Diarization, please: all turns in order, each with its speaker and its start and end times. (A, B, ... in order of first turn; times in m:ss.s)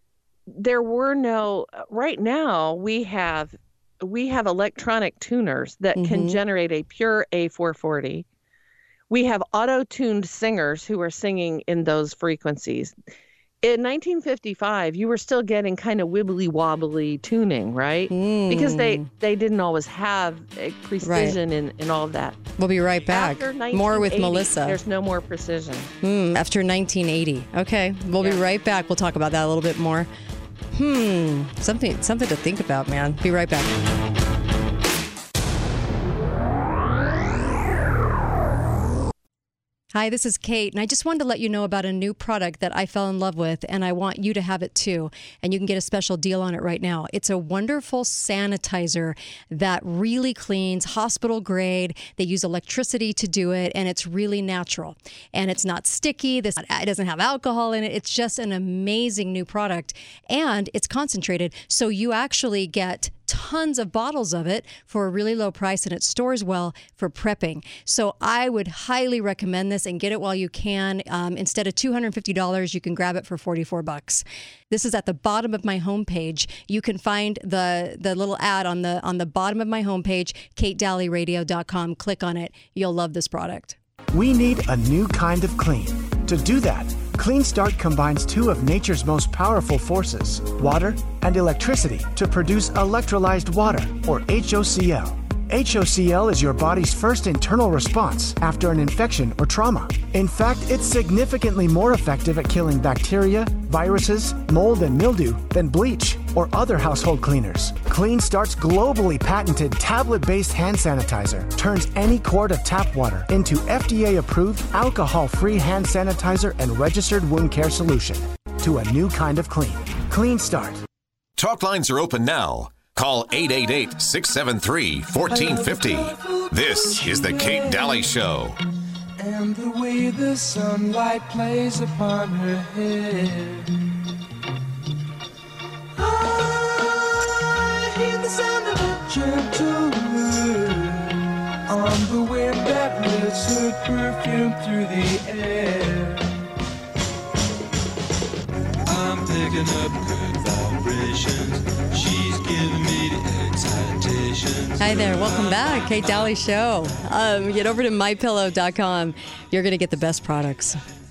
0:00.5-0:08.3 A
0:06.0-0:06.4 B
0:09.1-0:13.0 A
0:13.6-0:22.4 A
0:18.1-0:19.1 B
0:21.0-0:21.4 B
0:22.6-0:24.8 B
0:23.1-0:25.9 A
0:26.0-0:30.1 B
0:30.7-0:33.7 B
0:39.9-1:23.8 B
1:24.1-2:00.8 C
2:01.4-2:08.6 D
2:05.2-2:08.0 E
2:09.2-2:13.7 E
2:16.0-2:21.1 E
2:21.7-2:26.3 E
2:28.9-2:35.5 E
2:34.8-2:40.8 B